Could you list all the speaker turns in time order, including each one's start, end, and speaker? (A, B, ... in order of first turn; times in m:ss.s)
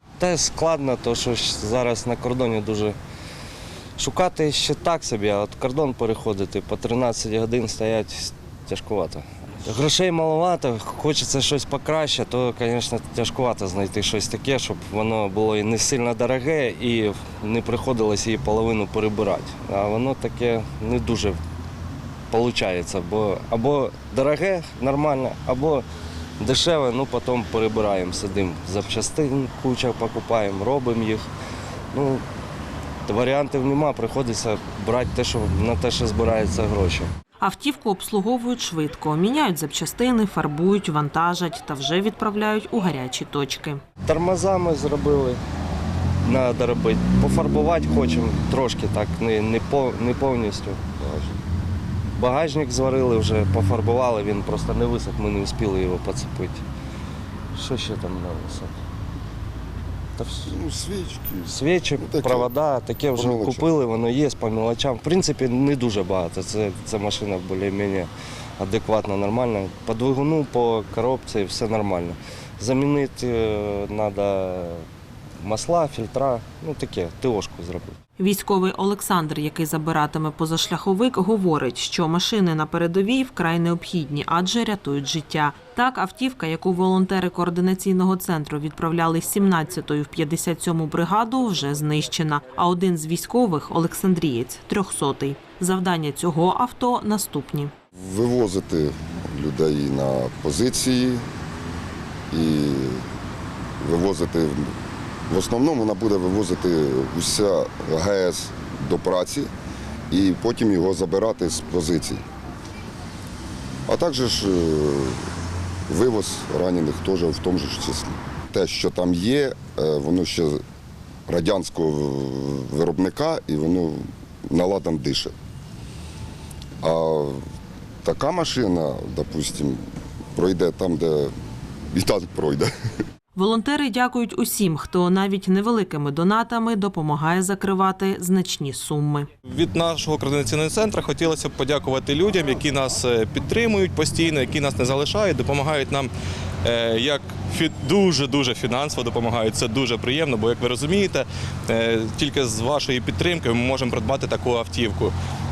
0:00.2-0:03.0 A
0:04.0-0:21.4 A
0:22.3-0:25.8 A
0:26.4-0:31.2 A
0:31.9-0:32.2 A
0:33.0-0:37.1 A
0:37.4-0:43.8 B
0:44.0-0:45.4 A
0:46.2-0:50.8 A
0:51.0-0:51.4 C
0:52.2-0:56.6 A
0:57.5-0:58.7 A
1:00.2-1:00.5 A
1:00.4-1:02.5 C
1:01.5-1:14.8 A
1:03.1-1:03.7 C
1:15.4-1:18.0 A
1:18.2-1:37.7 B
1:38.0-1:41.2 C
1:42.3-1:43.0 C
1:43.8-1:44.7 C
1:45.3-1:49.5 C
1:50.1-1:52.2 C
1:53.9-1:55.2 C
1:55.9-2:00.6 C
2:01.3-2:05.3 C
2:06.8-2:07.4 C
2:08.0-2:09.8 C
2:10.3-2:11.3 C
2:11.9-2:12.7 C
2:13.3-2:19.3 B
2:19.5-2:26.1 D
2:26.6-2:35.1 D